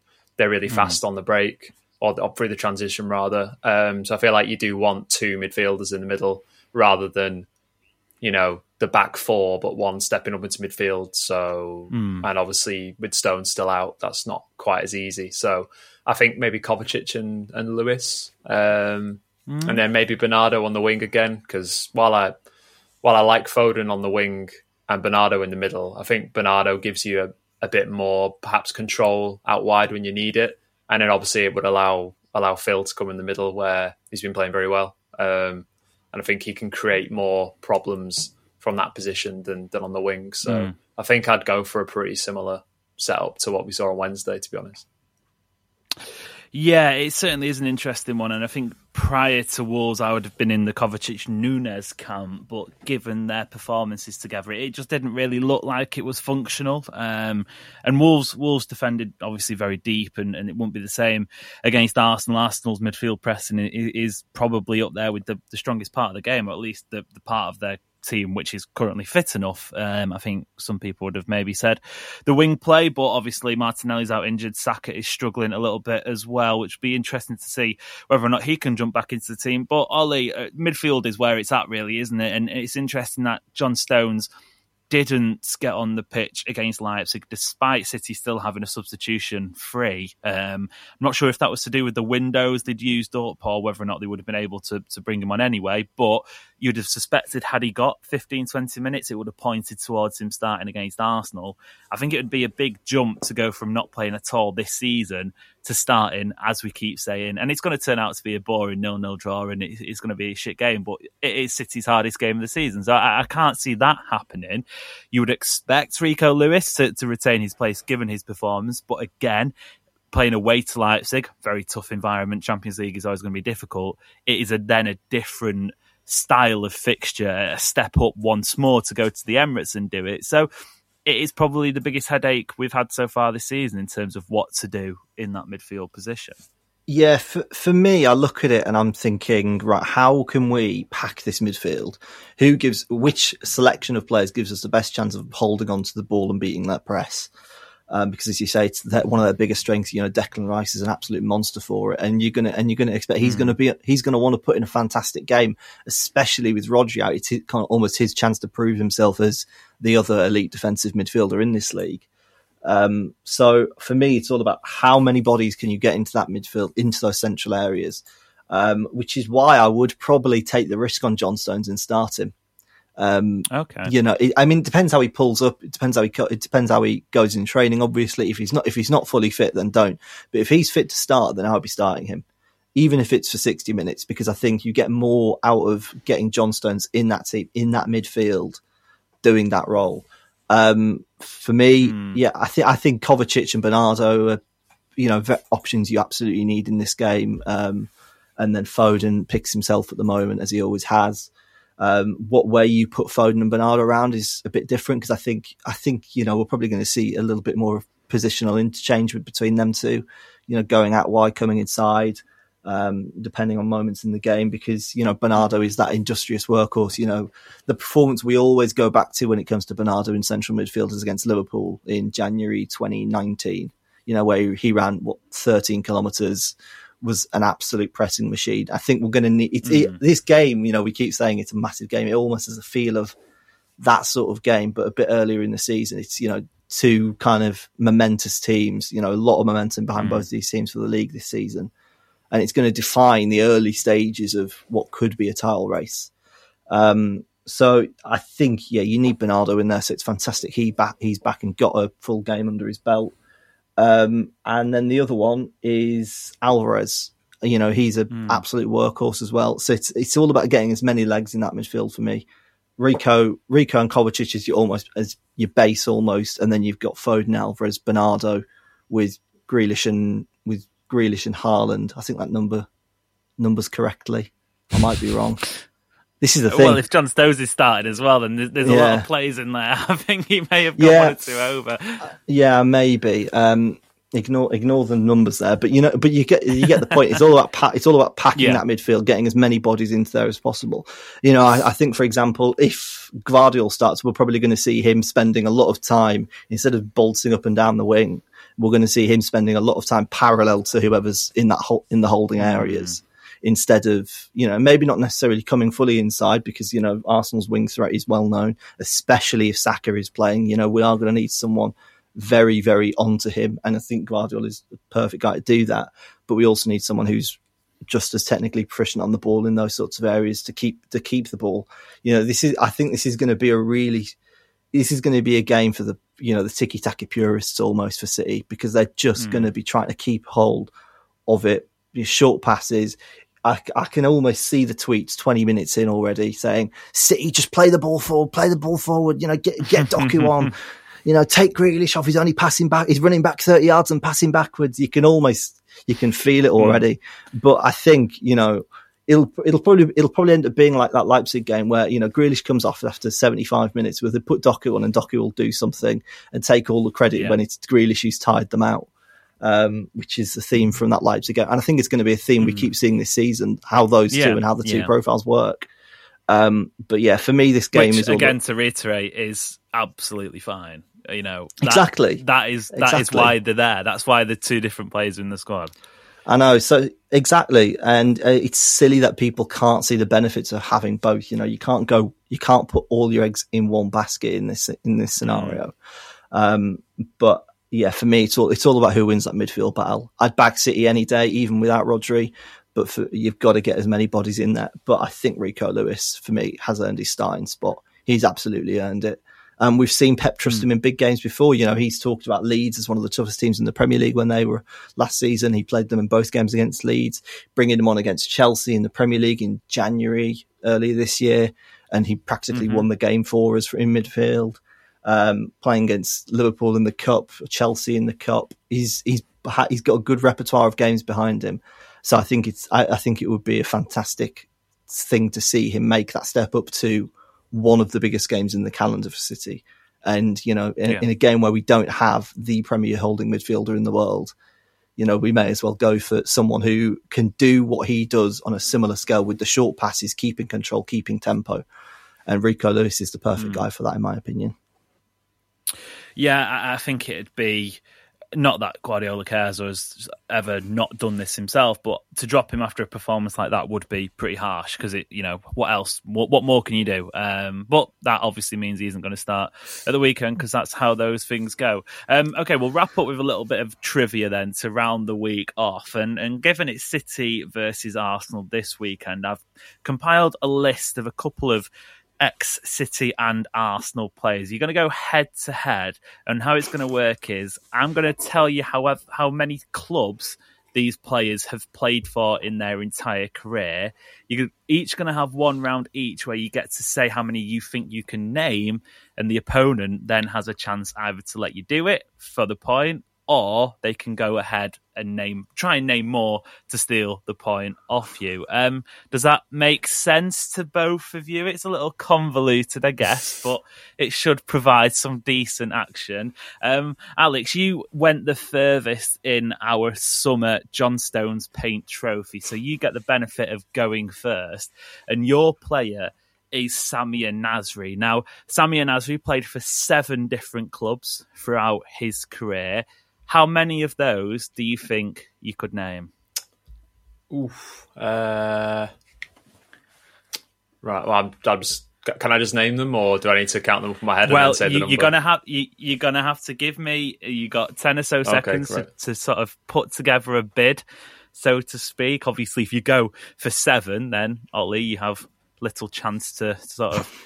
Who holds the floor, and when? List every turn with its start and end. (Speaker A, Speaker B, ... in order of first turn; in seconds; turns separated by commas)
Speaker A: 0.4-7.5, Speaker B: 0.7-1.0, Speaker A: 8.2-22.4, Speaker B: 11.9-12.3, Speaker B: 19.5-19.8, Speaker A: 23.0-44.9, Speaker B: 40.5-40.8, Speaker B: 46.5-84.3, Speaker B: 84.9-119.5, Speaker B: 120.1-130.5, Speaker B: 131.1-136.4, Speaker C: 136.9-147.3, Speaker C: 147.9-162.1, Speaker B: 153.2-153.6, Speaker C: 162.6-172.3, Speaker C: 173.0-188.6, Speaker B: 173.5-173.9, Speaker C: 189.2-194.4, Speaker B: 191.8-192.2, Speaker C: 195.0-233.2, Speaker B: 229.6-230.0, Speaker C: 233.8-241.7, Speaker B: 239.9-240.3, Speaker C: 242.3-246.1, Speaker C: 246.7-253.1, Speaker C: 253.8-262.3, Speaker B: 258.1-258.4, Speaker C: 262.8-272.7, Speaker C: 273.4-275.5, Speaker C: 276.2-276.8, Speaker B: 276.5-282.1, Speaker C: 278.6-279.1, Speaker C: 280.8-281.2, Speaker C: 282.0-324.1, Speaker B: 288.4-288.6, Speaker B: 302.4-303.0, Speaker C: 324.7-330.7, Speaker B: 329.2-329.5, Speaker C: 331.3-358.9, Speaker B: 339.7-340.5, Speaker B: 357.1-357.4, Speaker C: 359.4-365.7, Speaker B: 362.4-362.7, Speaker B: 364.1-364.9, Speaker C: 366.3-368.4, Speaker B: 367.7-375.7, Speaker C: 371.6-373.4, Speaker C: 376.3-385.7, Speaker B: 385.2-385.6, Speaker C: 386.3-434.3, Speaker B: 412.5-412.9, Speaker C: 435.0-441.6, Speaker C: 442.3-444.6, Speaker B: 443.4-443.7, Speaker B: 446.2-447.8, Speaker B: 448.4-471.7, Speaker B: 472.2-526.1, Speaker A: 527.3-528.9, Speaker A: 530.8-535.1, Speaker B: 534.3-540.8, Speaker A: 538.2-538.9, Speaker B: 541.4-547.1